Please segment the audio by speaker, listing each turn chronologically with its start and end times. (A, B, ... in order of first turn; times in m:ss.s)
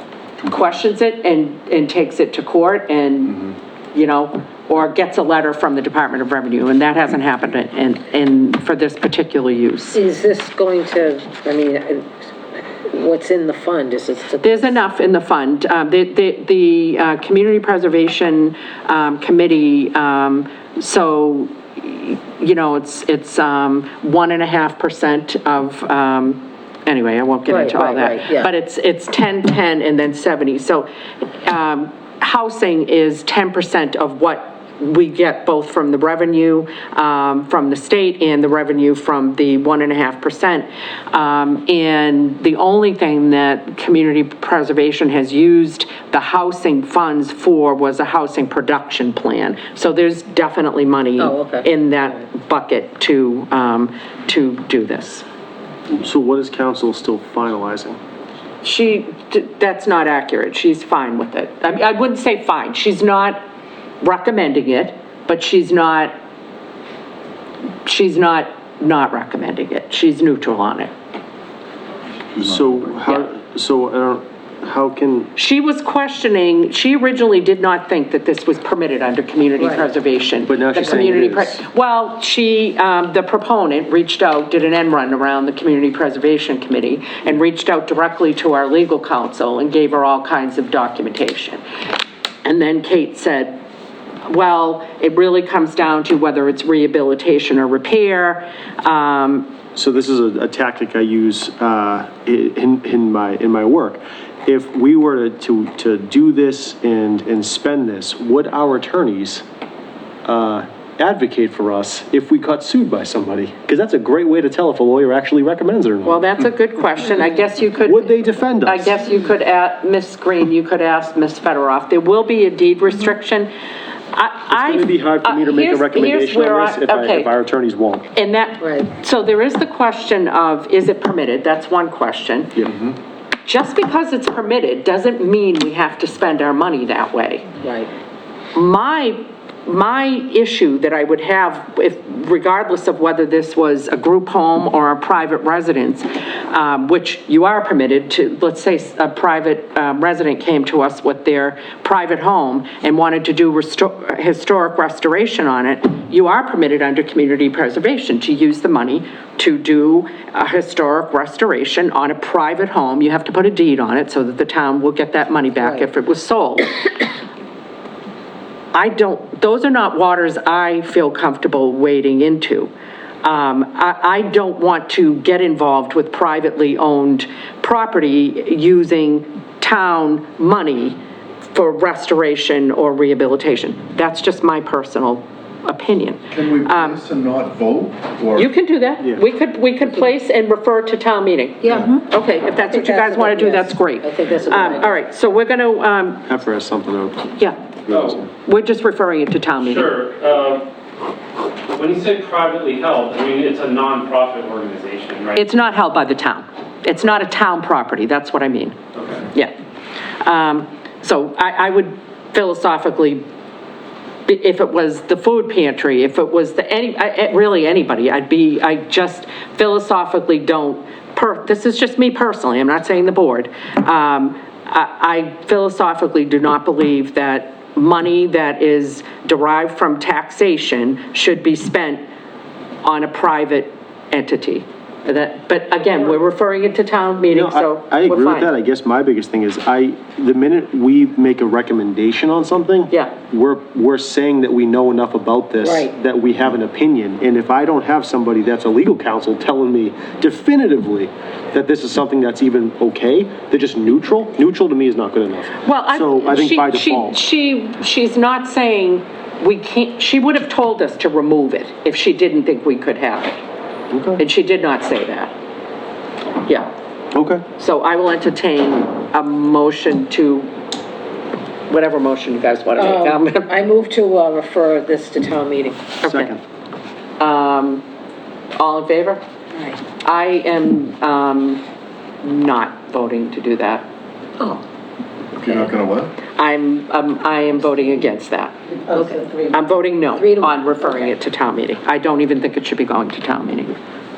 0:00.4-0:10.0 A
0:09.9-0:14.8 B
0:14.4-0:30.9 A
0:27.5-0:28.5 B
0:31.4-0:55.2 A
0:51.2-0:51.7 B
0:55.9-0:58.0 C
0:58.6-1:03.4 A
1:04.0-1:06.1 A
1:07.8-1:10.9 A
1:12.4-1:15.3 C
1:15.4-1:31.6 A
1:20.5-1:21.6 C
1:32.4-1:33.6 A
1:34.3-1:39.5 A
1:39.8-1:49.4 C
1:50.2-1:56.2 C
1:56.0-2:03.5 A
1:57.8-1:59.0 C
2:04.1-2:07.3 A
2:04.5-2:08.1 C
2:08.1-2:12.7 A
2:08.6-2:08.9 B
2:13.4-2:17.5 A
2:17.6-2:17.9 B
2:18.6-2:46.7 A
2:48.7-2:52.7 A
2:53.2-3:01.0 A
3:01.5-3:07.0 A
3:06.3-3:08.5 D
3:08.3-3:16.2 A
3:11.6-3:11.9 B
3:12.6-3:15.0 B
3:16.3-3:17.3 C
3:17.9-3:18.2 C
3:17.9-3:18.2 E
3:18.4-3:20.0 A
3:19.6-3:20.7 E
3:21.7-3:25.4 E
3:25.4-3:28.8 A
3:29.0-3:29.2 E
3:30.2-3:33.2 A
3:34.3-3:52.0 A
3:52.8-3:58.5 A
3:57.3-4:17.2 C
4:05.6-4:05.9 B
4:15.6-4:23.4 A
4:23.9-4:24.2 C
4:24.2-4:25.3 A
4:26.4-4:26.7 A
4:27.1-4:27.4 C
4:27.6-4:30.5 A
4:31.7-4:33.6 A
4:32.8-4:35.9 B
4:36.0-4:36.4 A
4:36.0-4:36.4 C
4:37.2-4:37.8 A
4:38.6-4:39.2 A
4:39.9-4:41.6 A
4:42.2-4:43.8 A
4:45.4-4:46.1 D
4:46.3-4:53.7 A
4:48.9-4:49.6 B
4:50.2-4:50.9 B